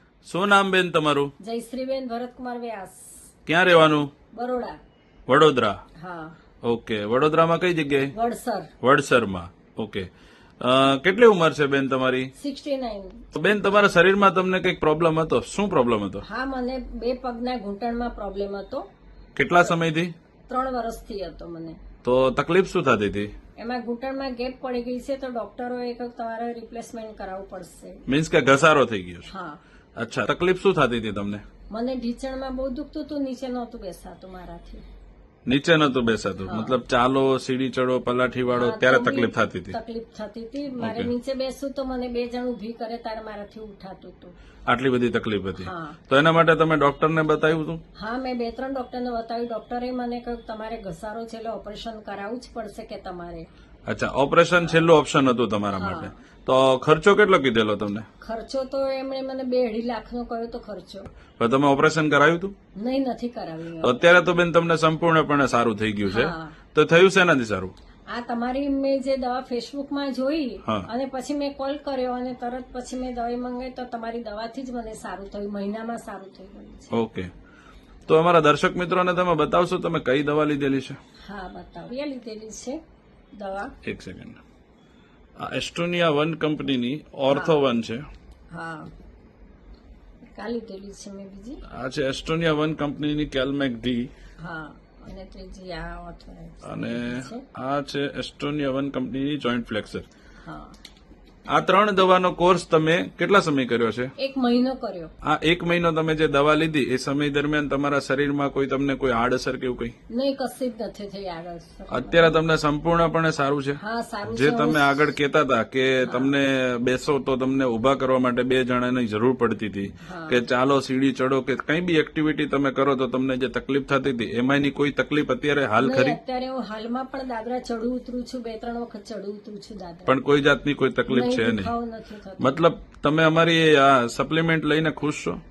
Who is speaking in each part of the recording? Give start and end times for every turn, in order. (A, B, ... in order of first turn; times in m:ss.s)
0:00.2-0:01.3 A
0:01.4-0:03.1 B
0:03.5-0:04.1 A
0:04.3-0:04.8 B
0:05.3-0:05.8 A
0:06.0-0:06.4 B
0:06.6-0:08.1 A
0:08.1-0:08.7 B
0:08.8-0:10.1 A
0:10.6-0:12.3 A
0:12.3-0:13.3 B
0:13.3-0:16.2 A
0:16.2-0:18.8 B
0:19.4-0:20.1 A
0:20.5-0:21.8 B
0:22.0-0:23.3 A
0:23.6-0:28.0 B
0:28.1-0:29.3 A
0:29.3-0:29.6 B
0:30.0-0:31.4 A
0:31.7-0:34.8 B
0:35.4-0:39.8 A
0:36.4-0:36.8 B
0:38.5-0:44.3 B
0:40.8-0:41.1 A
0:44.7-0:47.8 A
0:45.6-0:46.0 B
0:47.9-0:53.5 B
0:53.9-0:58.1 A
0:55.7-0:56.2 B
0:58.2-1:01.1 B
1:01.3-1:02.5 A
1:02.7-1:04.0 B
1:03.8-1:07.7 A
1:06.1-1:06.6 B
1:08.1-1:16.9 B
1:16.9-1:17.3 A
1:18.1-1:21.0 A
1:21.2-1:22.8 B
1:23.3-1:23.7 B
1:23.8-1:24.4 A
1:25.4-1:28.0 A
1:27.3-1:27.6 B
1:28.5-1:28.9 B
1:30.3-1:31.6 B
1:31.7-1:34.1 A
1:34.4-1:37.4 B
1:36.6-1:40.1 A
1:40.4-1:40.8 B
1:41.5-1:44.1 A
1:44.2-1:45.1 B
1:45.2-1:49.9 A
1:50.1-1:52.4 B
1:51.9-2:06.2 A
1:53.8-1:55.1 B
1:56.0-1:56.3 B
2:00.0-2:00.4 B
2:05.8-2:10.2 B
2:10.1-2:11.7 A
2:11.1-2:12.6 B
2:12.4-2:15.4 A